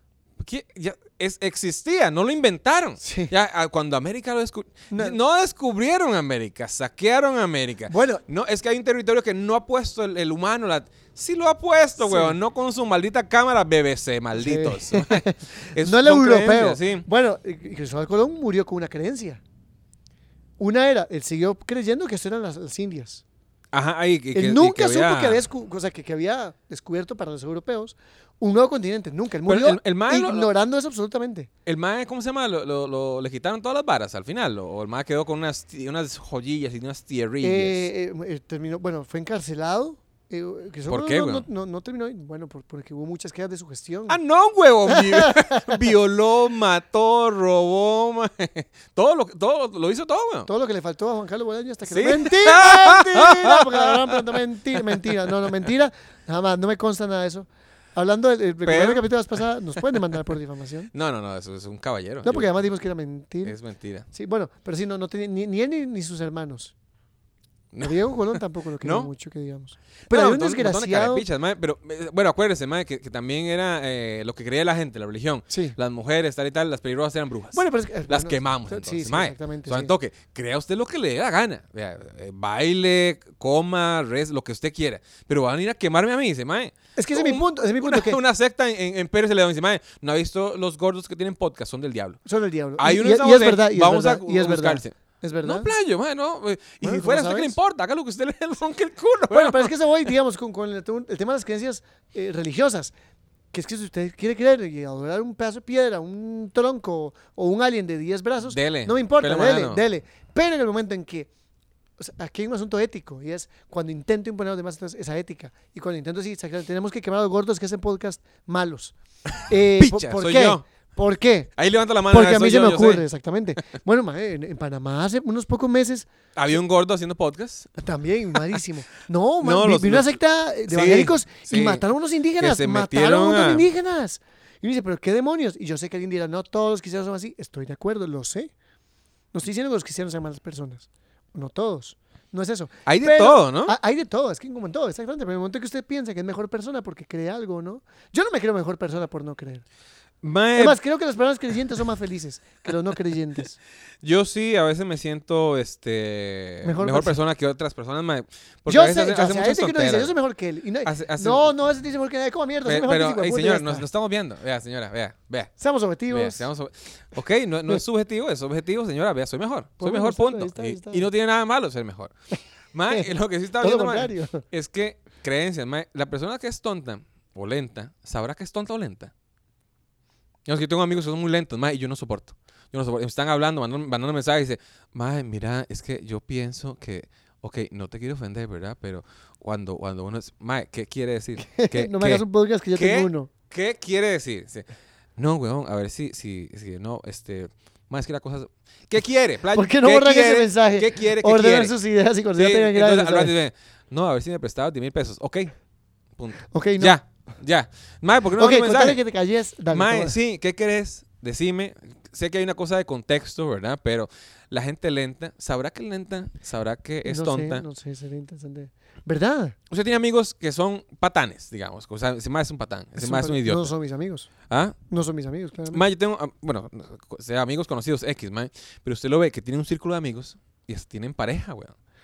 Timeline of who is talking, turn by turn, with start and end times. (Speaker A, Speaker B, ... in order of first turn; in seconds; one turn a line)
Speaker A: 0.4-17.1
Speaker B: 3.0-3.3
Speaker B: 4.9-5.2
Speaker B: 7.9-8.2
Speaker B: 12.0-12.4
Speaker B: 14.3-19.4
Speaker B: 20.6-23.2
Speaker A: 23.7-25.4
Speaker B: 24.3-31.5
Speaker A: 29.5-30.5
Speaker A: 31.7-37.8
Speaker B: 37.4-44.2
Speaker A: 40.9-41.5
Speaker A: 44.1-50.5
Speaker B: 44.9-45.8
Speaker B: 50.5-60.9
Speaker A: 51.9-54.4
Speaker A: 54.9-55.6
Speaker A: 58.6-59.1
Speaker A: 60.9-62.6
Speaker B: 62.2-63.6
Speaker A: 63.4-64.1
Speaker B: 64.1-66.7
Speaker A: 67.7-69.1
Speaker B: 67.8-71.3
Speaker A: 70.1-92.2
Speaker B: 75.5-75.8
Speaker B: 77.5-79.9
Speaker B: 87.0-88.2
Speaker B: 92.2-95.7
Speaker A: 92.8-99.7
Speaker B: 96.8-97.6
Speaker B: 99.3-102.9
Speaker B: 103.5-111.3
Speaker A: 108.5-109.8
Speaker B: 112.0-119.0
Speaker A: 119.4-120.6
Speaker B: 119.5-121.5
Speaker A: 121.6-123.0
Speaker B: 122.1-126.1
Speaker A: 126.4-127.7
Speaker B: 127.8-138.5
Speaker A: 129.4-131.8
Speaker A: 132.4-133.7
Speaker B: 139.3-149.7
Speaker A: 142.9-143.8
Speaker A: 150.2-150.8
Speaker B: 150.6-153.6
Speaker A: 154.0-160.1
Speaker B: 156.6-157.2
Speaker B: 158.7-163.9
Speaker A: 160.8-161.5
Speaker A: 162.7-165.5
Speaker B: 165.6-166.5
Speaker A: 166.1-172.1
Speaker B: 169.8-171.1
Speaker A: 172.7-179.1
Speaker B: 172.9-174.4
Speaker A: 180.5-194.7
Speaker B: 191.4-193.3
Speaker A: 195.2-201.7
Speaker B: 199.5-203.3
Speaker A: 202.4-205.5
Speaker A: 206.2-209.0
Speaker B: 206.5-207.0
Speaker B: 208.4-210.2
Speaker A: 209.7-217.7
Speaker B: 217.1-219.6
Speaker A: 219.7-223.7
Speaker B: 223.0-224.3
Speaker A: 224.5-224.8
Speaker B: 224.9-225.8
Speaker A: 225.7-231.8